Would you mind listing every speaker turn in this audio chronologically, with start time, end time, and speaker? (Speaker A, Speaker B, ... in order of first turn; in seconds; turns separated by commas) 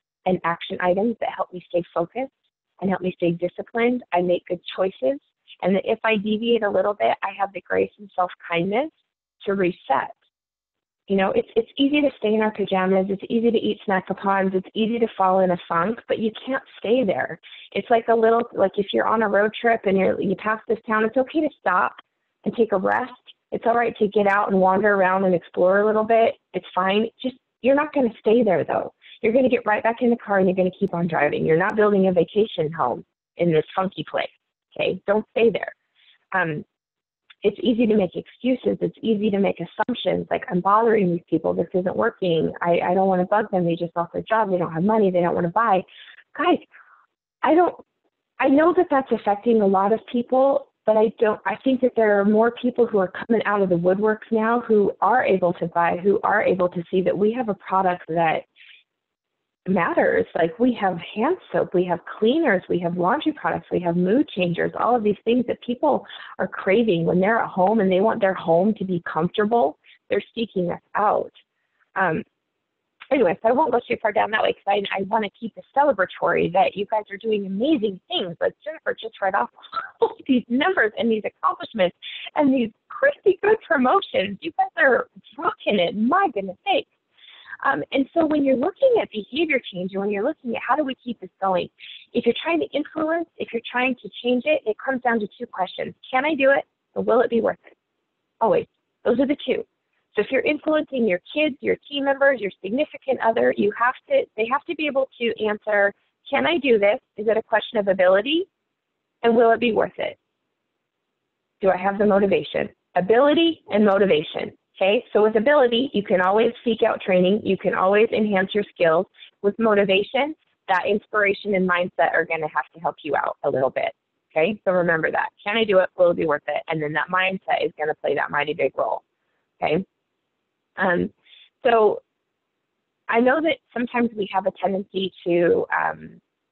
Speaker A: 0.3-10.1, Speaker A: 11.1-35.7, Speaker A: 36.3-36.6, Speaker A: 37.4-46.6, Speaker A: 47.4-47.8, Speaker A: 48.4-58.4, Speaker A: 59.6-71.3, Speaker A: 72.0-72.2, Speaker A: 73.1-86.9, Speaker A: 87.6-97.7, Speaker A: 98.4-108.5, Speaker A: 109.2-110.2, Speaker A: 111.6-129.0, Speaker A: 129.6-129.8, Speaker A: 130.8-132.0, Speaker A: 133.1-136.2